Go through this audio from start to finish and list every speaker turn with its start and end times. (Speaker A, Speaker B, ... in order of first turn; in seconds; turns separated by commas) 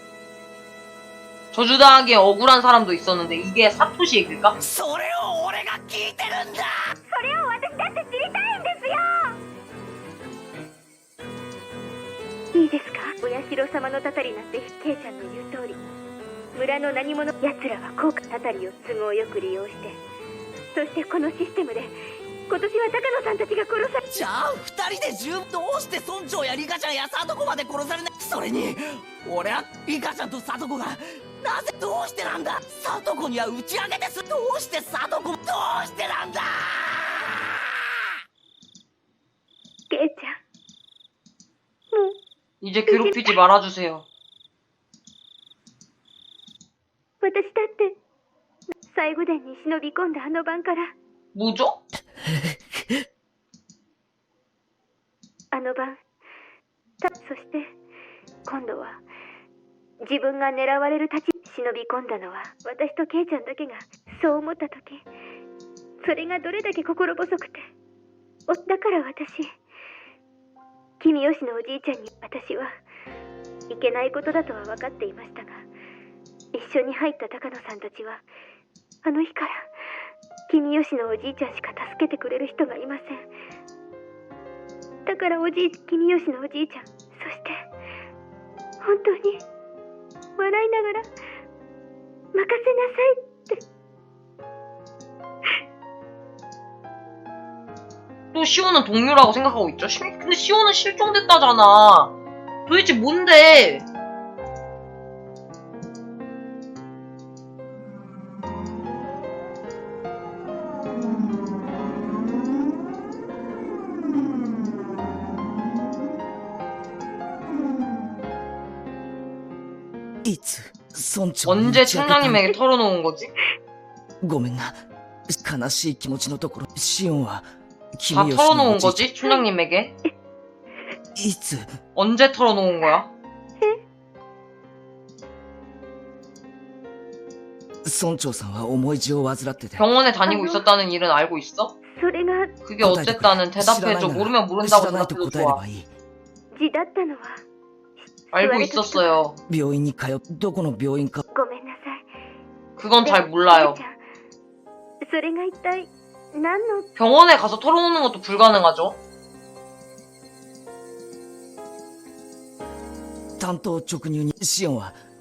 Speaker A: 1.5-4.6, Speaker B: 4.6-6.9, Speaker C: 7.1-9.4, Speaker C: 12.5-15.8, Speaker C: 16.5-20.0, Speaker C: 20.7-24.0, Speaker B: 24.0-37.4, Speaker C: 39.9-40.3, Speaker A: 42.6-44.0, Speaker C: 42.9-43.4, Speaker C: 47.2-47.9, Speaker C: 48.9-50.9, Speaker A: 51.4-51.8, Speaker C: 55.5-56.0, Speaker C: 57.0-57.7, Speaker C: 58.5-59.0, Speaker C: 60.0-65.0, Speaker C: 66.0-67.6, Speaker C: 68.5-69.5, Speaker C: 71.0-72.8, Speaker C: 73.7-75.7, Speaker C: 76.5-78.2, Speaker C: 79.0-79.7, Speaker C: 80.5-83.3, Speaker C: 85.1-87.6, Speaker C: 88.8-89.4, Speaker C: 90.4-91.1, Speaker C: 92.3-93.6, Speaker A: 98.3-102.1, Speaker A: 102.7-103.8, Speaker B: 120.2-122.5, Speaker A: 121.5-123.3, Speaker B: 124.2-124.8, Speaker B: 125.3-127.5, Speaker B: 128.0-129.1, Speaker A: 128.1-130.0, Speaker B: 131.2-131.7, Speaker A: 132.0-133.1, Speaker B: 137.8-139.8, Speaker A: 139.8-141.8, Speaker C: 140.3-140.6, Speaker C: 142.0-142.6, Speaker A: 142.7-145.6, Speaker B: 142.8-145.9, Speaker C: 146.5-147.4, Speaker A: 148.3-149.4, Speaker C: 148.3-149.1, Speaker B: 149.5-151.2, Speaker C: 151.3-152.1, Speaker A: 152.8-153.8, Speaker C: 153.0-153.9, Speaker C: 155.0-156.9, Speaker A: 157.0-159.0, Speaker B: 163.4-164.9